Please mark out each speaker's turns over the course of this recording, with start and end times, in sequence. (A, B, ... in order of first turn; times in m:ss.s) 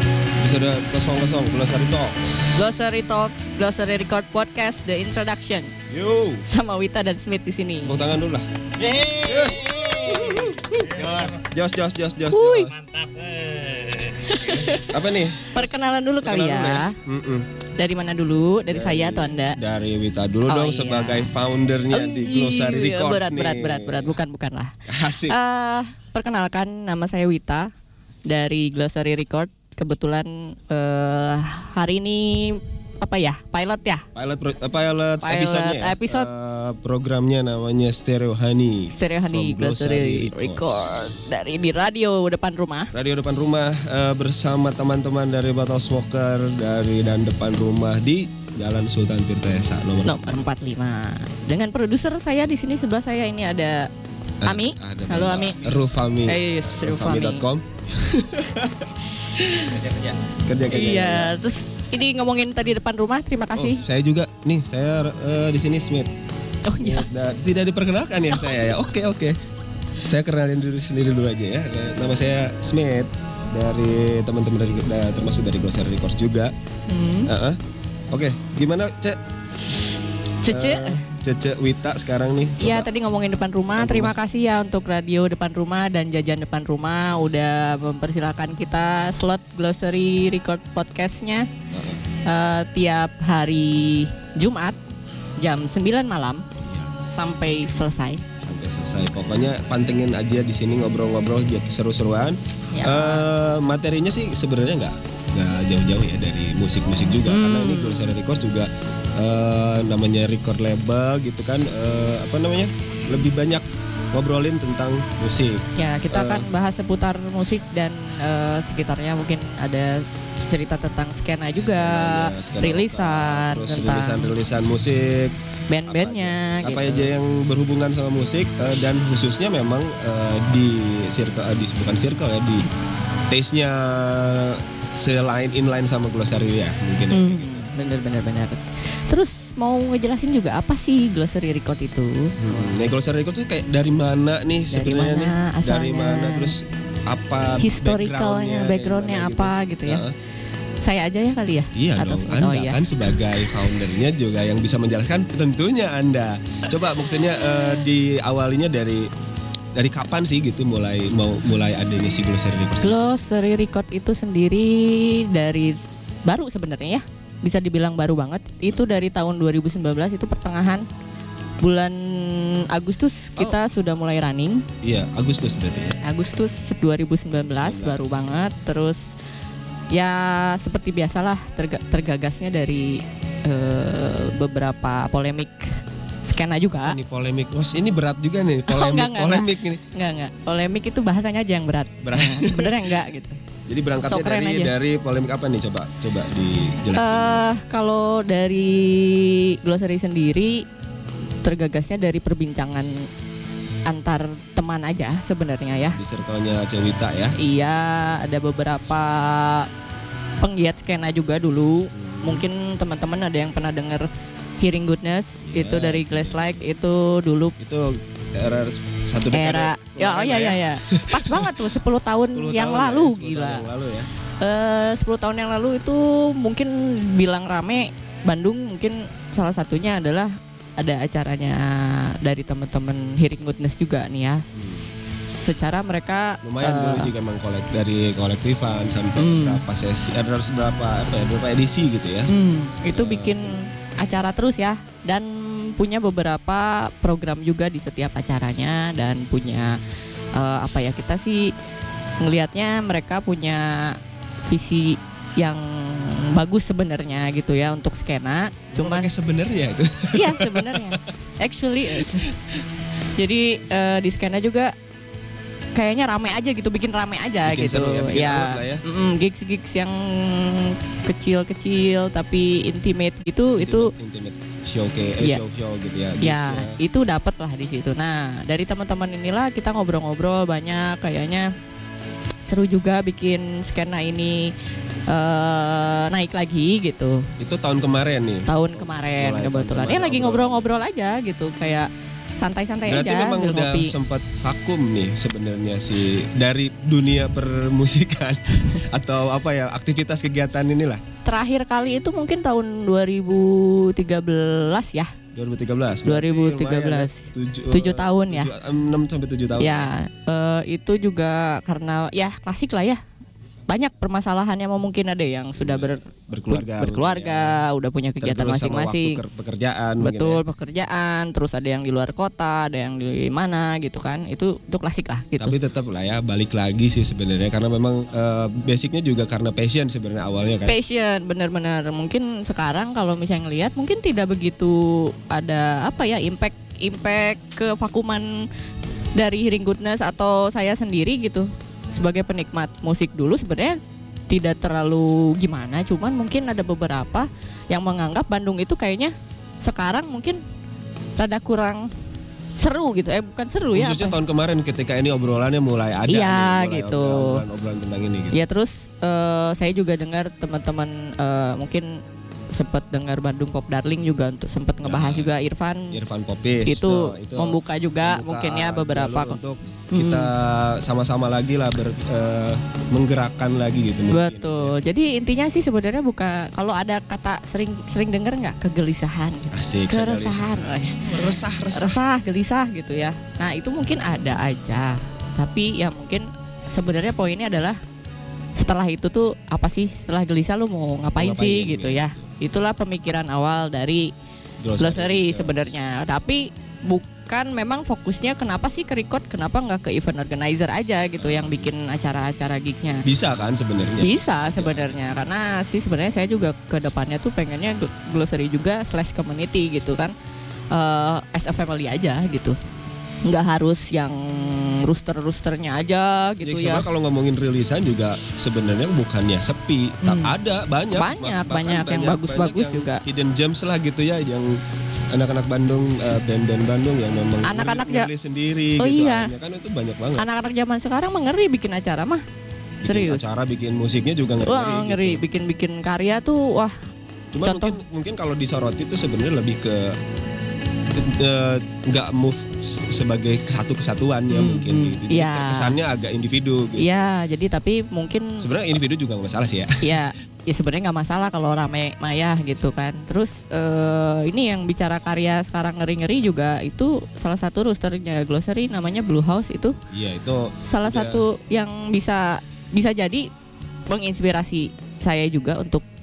0:00.4-0:02.7 A
0:02.5-0:05.7 B
0:05.9-0:06.4 A
0:06.4-0:08.0 B
0:07.8-0:08.5 A
0:08.8-0:11.4 C
0:09.2-0:12.7 A
0:12.3-0:12.7 B
0:12.7-0:14.9 C
0:14.2-0:17.0 B
0:14.8-0:15.6 A
0:16.2-0:17.5 A
0:17.8-0:19.6 B
0:18.7-0:24.2 A
0:20.5-0:21.3 B
0:21.9-0:27.7 B
0:24.9-0:25.4 A
0:28.3-0:34.1 B
0:34.2-0:41.2 A
0:35.2-0:36.3 B
0:38.9-0:42.9 B
0:42.9-0:50.4 A
0:50.0-0:53.9 B
0:54.4-0:57.5 B
0:54.4-1:01.4 A
1:00.7-1:03.8 B
1:03.6-1:06.1 A
1:06.6-1:07.2 B
1:06.8-1:09.4 A
1:10.0-1:16.5 A
1:16.9-1:17.3 B
1:17.2-1:17.6 A
1:18.1-1:19.2 A
1:20.4-1:21.1 B
1:20.5-1:22.9 A
1:22.6-1:31.5 B
1:23.7-1:24.1 A
1:31.7-1:32.0 A
1:32.2-1:34.8 B
1:35.4-1:36.4 B
1:36.6-1:36.9 A
1:37.1-1:38.2 B
1:38.4-1:56.5 A
1:42.7-1:43.3 B
1:47.2-1:48.2 B
1:55.8-2:04.3 B
2:01.6-2:05.4 A
2:05.7-2:07.1 B
2:05.9-2:12.7 A
2:13.3-2:17.7 A
2:17.1-2:22.8 B
2:22.4-2:30.1 A
2:24.7-2:26.5 B
2:27.6-2:30.0 B
2:30.8-2:32.8 B
2:31.7-2:39.1 A
2:39.8-2:43.1 A
2:42.8-2:50.9 B
2:51.6-2:54.6 B
2:54.8-2:56.0 A
2:56.0-2:59.1 B
2:57.5-2:58.2 A
2:59.9-3:07.0 B
3:06.8-3:09.8 A
3:08.7-3:13.4 B
3:12.0-3:12.9 A
3:13.7-3:17.4 A
3:14.1-3:14.7 B
3:17.0-3:20.6 B
3:21.4-3:23.1 B
3:23.9-3:26.0 B
3:26.0-3:27.4 A
3:27.4-3:29.7 B
3:30.4-3:37.6 B
3:31.9-3:32.4 A
3:35.5-3:36.5 A
3:37.6-3:41.7 A
3:39.3-3:43.7 B
3:42.3-3:44.1 A
3:44.4-3:57.1 B
3:54.6-3:54.9 A
3:56.4-4:02.3 A
3:59.2-3:59.6 B
4:02.3-4:09.8 B
4:02.9-4:03.6 A
4:10.3-4:11.5 B
4:12.2-4:19.1 B
4:18.7-4:21.0 A
4:20.1-4:22.3 B
4:21.9-4:22.6 A
4:23.2-4:24.7 B
4:25.8-4:33.9 B
4:27.4-4:28.8 A
4:33.6-4:36.8 A
4:36.2-4:41.5 B
4:42.5-4:44.5 B
4:45.1-4:47.3 B
4:47.4-4:50.7 A
4:48.5-4:53.9 B
4:52.9-5:01.0 A
5:01.2-5:05.1 B
5:05.3-5:09.9 A
5:06.1-5:08.5 B
5:09.6-5:13.0 B
5:13.7-5:19.2 B
5:15.6-5:17.6 A
5:18.2-5:20.4 A
5:20.0-5:25.6 B
5:25.4-5:30.8 A
5:30.7-5:38.5 B
5:39.2-5:43.8 B
5:44.3-5:50.4 B
5:51.2-5:51.9 B
5:52.6-5:54.2 B
5:53.7-5:58.4 A
5:56.1-5:57.4 B
5:58.3-6:02.0 B
6:02.5-6:06.0 B
6:04.8-6:05.3 A
6:05.9-6:14.8 A
6:06.7-6:09.4 B
6:09.9-6:10.3 B
6:14.1-6:27.8 B
6:19.5-6:22.0 A
6:28.6-6:34.1 B
6:31.1-6:32.3 A
6:34.6-6:35.7 A
6:34.8-6:43.1 B
6:41.2-6:41.7 A
6:43.0-6:45.0 A
6:44.0-6:50.1 B
6:50.7-6:52.6 B
6:53.2-6:56.9 B
6:56.4-7:04.6 A
7:00.0-7:00.3 B
7:01.0-7:03.0 B
7:05.1-7:10.3 A
7:07.4-7:08.1 B
7:08.8-7:09.3 B
7:10.2-7:12.2 B
7:12.8-7:15.2 A
7:12.8-7:13.3 B
7:14.4-7:16.8 B
7:17.3-7:20.0 A
7:17.4-7:17.8 B
7:20.9-7:27.0 A
7:24.3-7:25.8 B
7:26.8-7:28.5 B
7:28.4-7:30.1 A
7:29.8-7:39.8 B
7:39.9-7:41.2 A
7:40.6-7:43.3 B
7:43.9-7:45.8 B